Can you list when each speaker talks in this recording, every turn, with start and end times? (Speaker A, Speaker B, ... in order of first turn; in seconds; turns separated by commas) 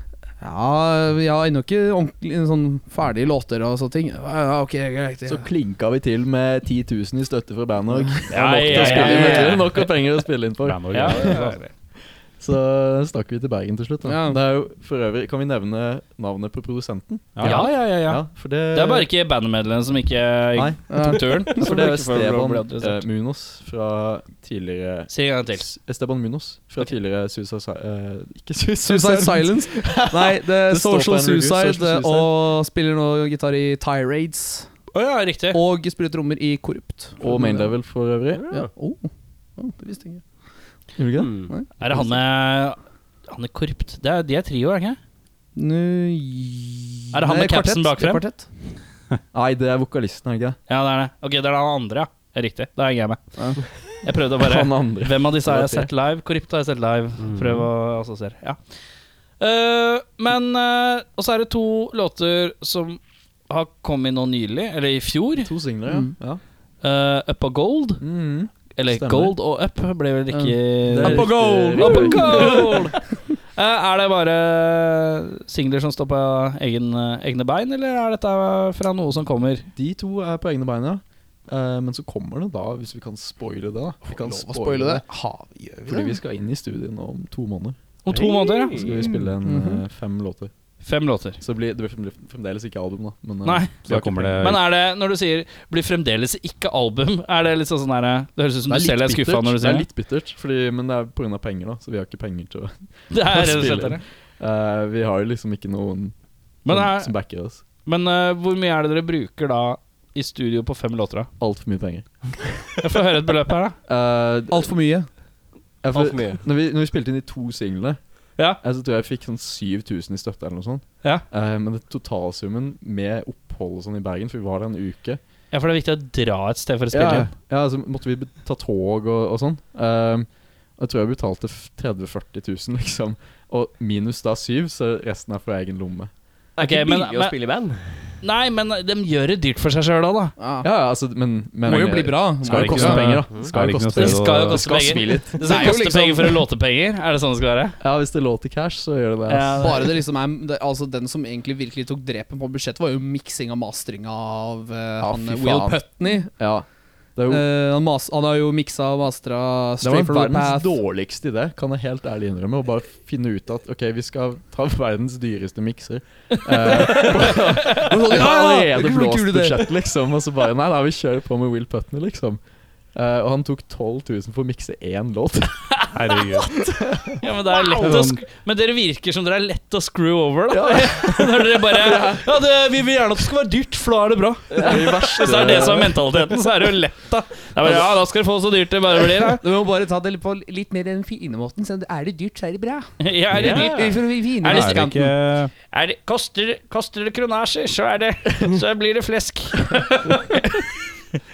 Speaker A: 0.4-5.5, Speaker B: 5.2-11.3, Speaker A: 7.9-9.7, Speaker C: 8.3-9.9, Speaker D: 10.6-11.6, Speaker C: 10.9-11.7, Speaker B: 12.4-19.1, Speaker A: 14.0-14.4, Speaker D: 17.3-17.7, Speaker C: 17.4-23.0, Speaker B: 20.6-20.8, Speaker A: 20.9-21.8, Speaker B: 21.4-32.3, Speaker C: 25.1-25.6, Speaker A: 28.8-34.7, Speaker C: 34.9-35.6, Speaker A: 35.5-37.7, Speaker B: 37.2-38.5, Speaker A: 38.5-40.2, Speaker B: 41.0-41.5, Speaker E: 41.2-41.5, Speaker A: 41.4-42.1, Speaker C: 41.8-45.0, Speaker A: 45.5-48.5, Speaker C: 47.1-48.2, Speaker B: 49.3-50.6, Speaker C: 50.7-53.2, Speaker A: 53.4-53.6, Speaker C: 54.0-58.6, Speaker B: 54.4-55.9, Speaker E: 57.2-57.7, Speaker C: 59.4-65.5, Speaker B: 65.4-66.4, Speaker A: 65.9-66.1, Speaker C: 66.8-68.0, Speaker B: 68.0-69.3, Speaker C: 68.7-73.0, Speaker A: 70.3-73.0, Speaker B: 70.9-72.8, Speaker C: 73.5-79.7, Speaker B: 79.7-85.0, Speaker A: 84.1-86.2, Speaker B: 85.9-87.8, Speaker C: 88.0-89.0, Speaker E: 88.1-89.1, Speaker B: 88.7-90.5, Speaker A: 89.4-89.8, Speaker C: 90.8-91.4, Speaker B: 91.4-94.5, Speaker C: 93.4-93.8, Speaker D: 93.8-94.7, Speaker C: 94.4-99.9, Speaker B: 98.7-106.1, Speaker C: 103.1-104.0, Speaker C: 106.6-107.1, Speaker B: 106.7-107.6, Speaker C: 107.8-111.3, Speaker B: 111.4-112.6, Speaker C: 112.8-113.8, Speaker B: 113.9-114.7, Speaker A: 114.5-115.1, Speaker B: 115.8-118.0, Speaker E: 115.9-116.4, Speaker B: 118.6-125.2, Speaker C: 125.5-127.3, Speaker B: 126.9-136.1, Speaker E: 136.6-138.0, Speaker C: 136.6-137.3, Speaker C: 138.2-140.3, Speaker A: 140.4-140.7, Speaker B: 140.6-145.7, Speaker A: 141.6-143.2, Speaker D: 142.4-144.7, Speaker C: 143.9-147.8, Speaker A: 145.3-146.4, Speaker B: 147.8-149.8, Speaker C: 149.3-149.9, Speaker A: 149.6-156.3, Speaker B: 155.0-155.8, Speaker B: 156.3-157.4, Speaker A: 157.3-160.8, Speaker B: 159.8-172.4, Speaker C: 166.5-167.8, Speaker A: 166.7-169.7, Speaker B: 172.9-175.8, Speaker D: 175.9-176.7, Speaker B: 176.6-177.2, Speaker C: 177.2-189.4, Speaker D: 177.7-178.2, Speaker B: 180.5-182.2, Speaker B: 184.6-186.0, Speaker A: 189.3-195.1, Speaker C: 193.0-194.9, Speaker E: 193.3-193.9, Speaker D: 194.4-195.5, Speaker C: 195.7-200.6